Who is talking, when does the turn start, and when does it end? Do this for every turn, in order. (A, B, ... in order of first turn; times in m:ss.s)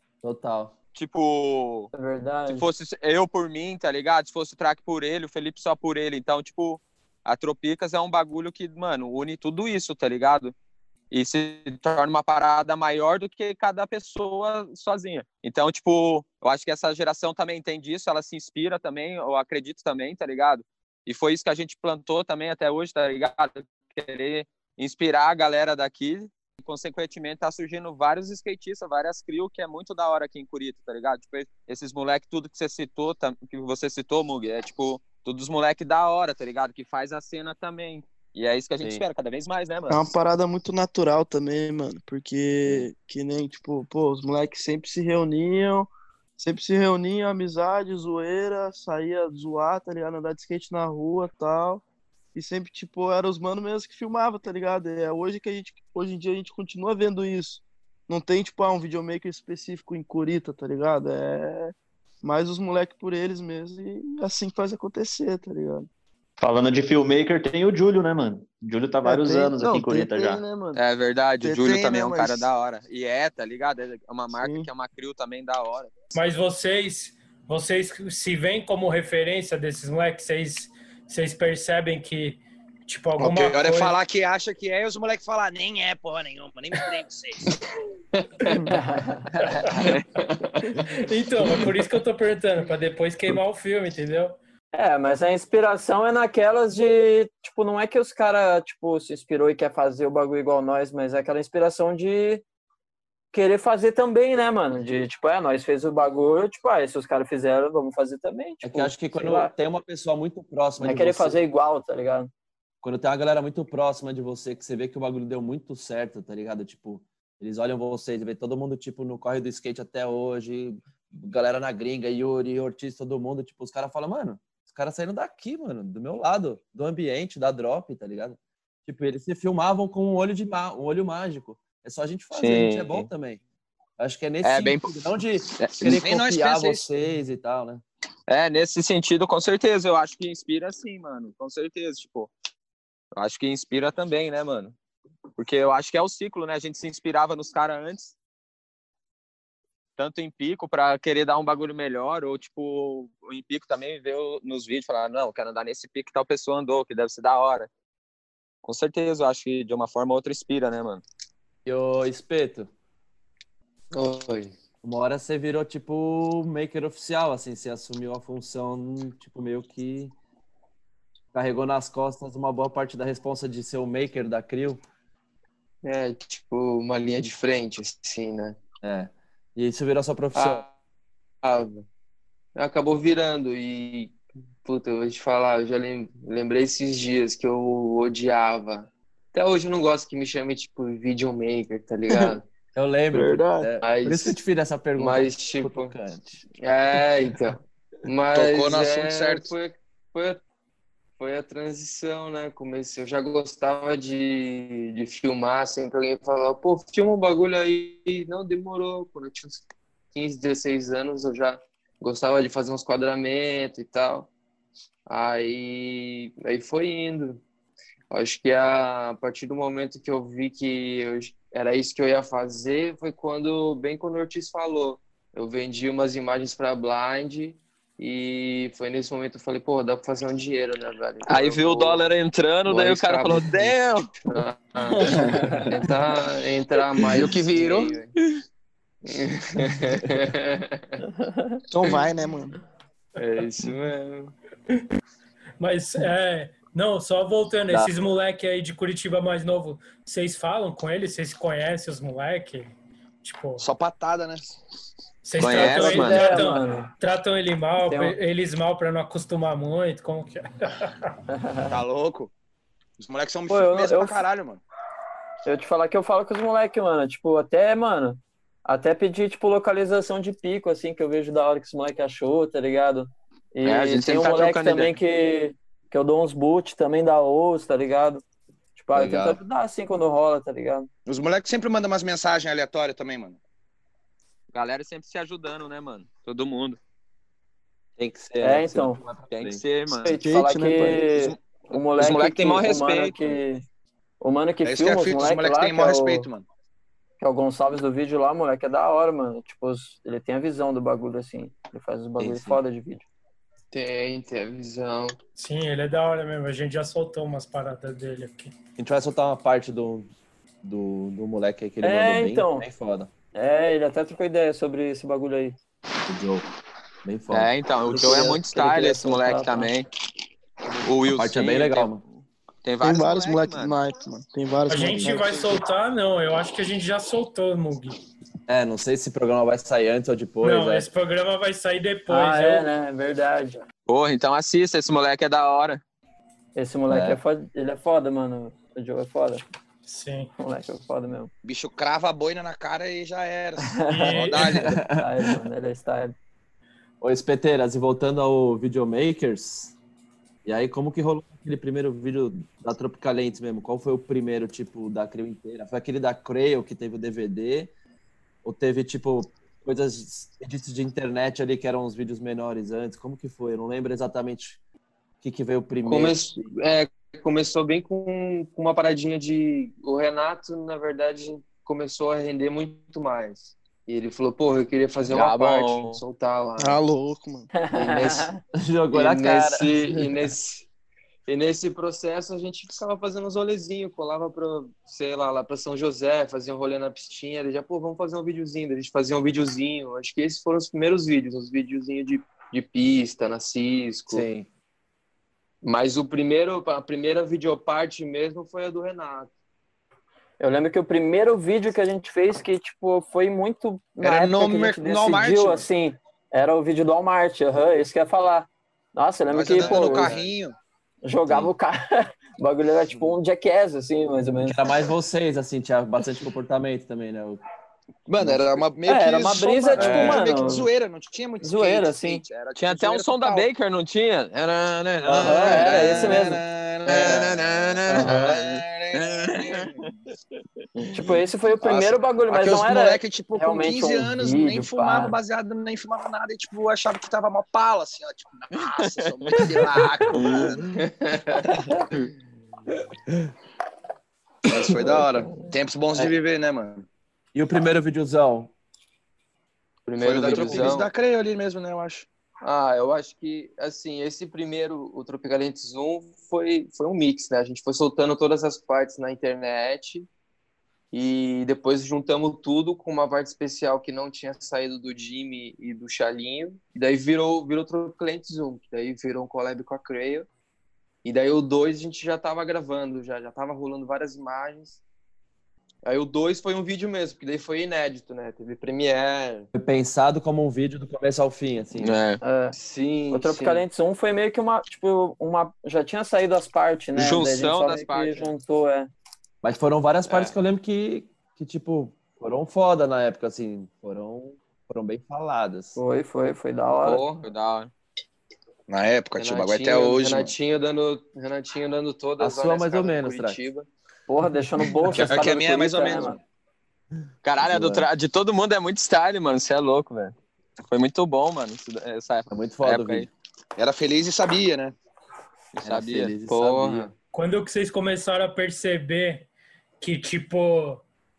0:00.2-0:00.7 A
0:00.9-0:01.9 B
0:01.9-0:02.7 C
0:02.5-0:10.5 B
0:11.1-0:40.2 B
0:39.9-0:51.8 D
0:52.3-1:05.9 D
1:06.4-1:10.4 E
1:09.0-1:10.8 D
1:10.7-1:16.0 B
1:11.4-1:12.5 D
1:14.4-1:14.7 D
1:16.1-1:24.0 F
1:23.2-1:27.5 G
1:28.1-1:28.7 H
1:28.6-1:29.2 C
1:29.4-1:30.0 F
1:29.6-1:30.6 H
1:29.8-1:30.0 B
1:30.8-1:34.4 F
1:34.7-1:42.4 C
1:43.3-1:49.5 C
1:48.6-1:51.4 A
1:50.8-1:52.3 C
1:52.8-2:13.4 A
2:12.3-2:13.1 B
2:14.0-2:17.8 A
2:14.4-2:15.0 B
2:15.6-2:15.8 B
2:15.8-2:16.9 G
2:18.3-2:22.3 B
2:23.1-2:24.7 B
2:25.4-2:28.1 B
2:30.0-2:37.7 B
2:38.6-2:41.0 B
2:41.6-2:42.7 A
2:43.9-2:44.5 H
2:44.8-2:50.1 A
2:51.3-2:54.8 A
2:55.8-2:58.6 H
2:58.8-3:00.6 A
3:00.3-3:00.7 H
3:01.4-3:01.8 H
3:02.6-3:12.5 H
3:12.7-3:16.4 A
3:13.1-3:13.7 D
3:13.8-3:14.4 H
3:15.0-3:15.9 H
3:16.6-3:20.4 H
3:18.3-3:19.5 G
3:21.2-3:34.3 H
3:35.1-3:37.4 H
3:38.1-3:52.0 H
3:51.3-3:54.2 B
3:52.7-3:58.1 H
3:55.2-3:55.6 F
3:59.0-4:00.9 H
4:01.7-4:02.6 D
4:03.2-4:04.3 H
4:05.6-4:12.7 F
4:07.7-4:07.9 A
4:13.2-4:13.6 F
4:13.6-4:14.5 G
4:15.2-4:21.1 F
4:15.4-4:16.4 B
4:15.4-4:16.9 C
4:17.8-4:18.2 C
4:21.3-4:21.7 C
4:21.7-4:22.3 G
4:23.0-4:24.6 G
4:23.5-4:24.2 C
4:25.4-4:38.2 C
4:33.6-4:34.9 B
4:38.8-4:40.9 C
4:38.9-4:39.4 A
4:41.0-4:43.4 G
4:44.5-4:46.8 B
4:48.0-4:49.6 A
4:48.4-4:49.0 C
4:49.3-4:50.4 B
4:50.0-4:53.6 C
4:50.2-4:51.3 D
4:52.0-4:53.3 B
4:54.2-4:56.3 C
4:54.6-4:56.4 G
4:57.2-5:03.0 C
5:02.2-5:02.6 A
5:03.7-5:05.2 H
5:05.4-5:08.5 F
5:08.8-5:10.1 A
5:10.6-5:13.1 A
5:11.8-5:12.7 C
5:13.3-5:15.6 C
5:16.1-5:16.4 A
5:17.0-5:17.5 A
5:17.3-5:19.9 B
5:17.9-5:19.7 C
5:20.7-5:22.0 A
5:20.8-5:22.0 B
5:22.6-5:23.8 B
5:22.8-5:25.6 D
5:24.7-5:28.0 F
5:28.5-5:30.9 A
5:30.4-5:32.7 F
5:32.1-5:33.6 C
5:33.9-5:35.8 B
5:36.6-5:39.4 C
5:36.9-5:37.2 A
5:39.9-5:40.3 F
5:40.4-5:41.3 C
5:41.4-5:44.7 G
5:43.6-5:44.2 C
5:43.9-5:44.6 F
5:44.6-5:45.4 A
5:44.8-5:46.1 C
5:47.0-5:49.7 A
5:50.4-5:57.7 A
5:58.4-6:04.6 A
6:05.2-6:06.2 A
6:05.8-6:16.8 H
6:15.1-6:16.0 B
6:16.6-6:17.6 D
6:17.6-6:18.4 C
6:17.6-6:18.3 H
6:18.5-6:20.1 A
6:18.9-6:20.7 H
6:21.3-6:34.3 H
6:34.1-6:34.5 A
6:35.6-6:39.3 H
6:40.4-6:50.1 C
6:44.0-6:45.7 G
6:49.3-6:50.6 G
6:49.7-6:50.1 A
6:51.0-6:54.6 C
6:54.4-6:57.4 A
6:58.1-7:03.5 G
6:58.2-6:58.6 A
6:58.8-7:00.7 C
6:59.8-7:00.2 A
7:01.4-7:02.2 C
7:02.6-7:06.3 B
7:05.1-7:09.9 G
7:05.2-7:06.4 C
7:06.8-7:09.7 B
7:10.9-7:15.2 C
7:11.6-7:20.8 G
7:19.3-7:19.6 B
7:20.1-7:20.5 B
7:20.8-7:21.4 H
7:24.5-7:26.8 G
7:24.7-7:25.0 A
7:27.3-7:28.5 A
7:29.8-7:30.9 H
7:30.0-7:32.0 G
7:30.0-7:30.8 A
7:32.4-7:40.1 H
7:40.9-7:50.3 H
7:51.0-7:54.8 H
7:55.8-7:59.5 H
7:59.5-8:02.0 A
8:01.7-8:02.2 B
8:02.2-8:02.5 C
8:02.5-8:03.6 H
8:03.1-8:08.9 C
8:07.0-8:08.3 B
8:09.4-8:15.8 A
8:10.1-8:10.3 H
8:15.8-8:17.0 C
8:16.8-8:17.3 H
8:17.2-8:17.7 B
8:18.7-8:20.3 G
8:19.2-8:23.7 H
8:22.2-8:23.4 A
8:24.1-8:26.2 C
8:24.9-8:26.2 G
8:27.2-8:30.1 B
8:27.4-8:27.9 A
8:30.7-8:33.1 B
8:32.3-8:33.1 A
8:33.6-8:34.7 G
8:35.5-8:36.2 B
8:35.6-8:36.9 A
8:36.3-8:36.9 H
8:37.1-8:39.3 F
8:39.8-8:40.8 F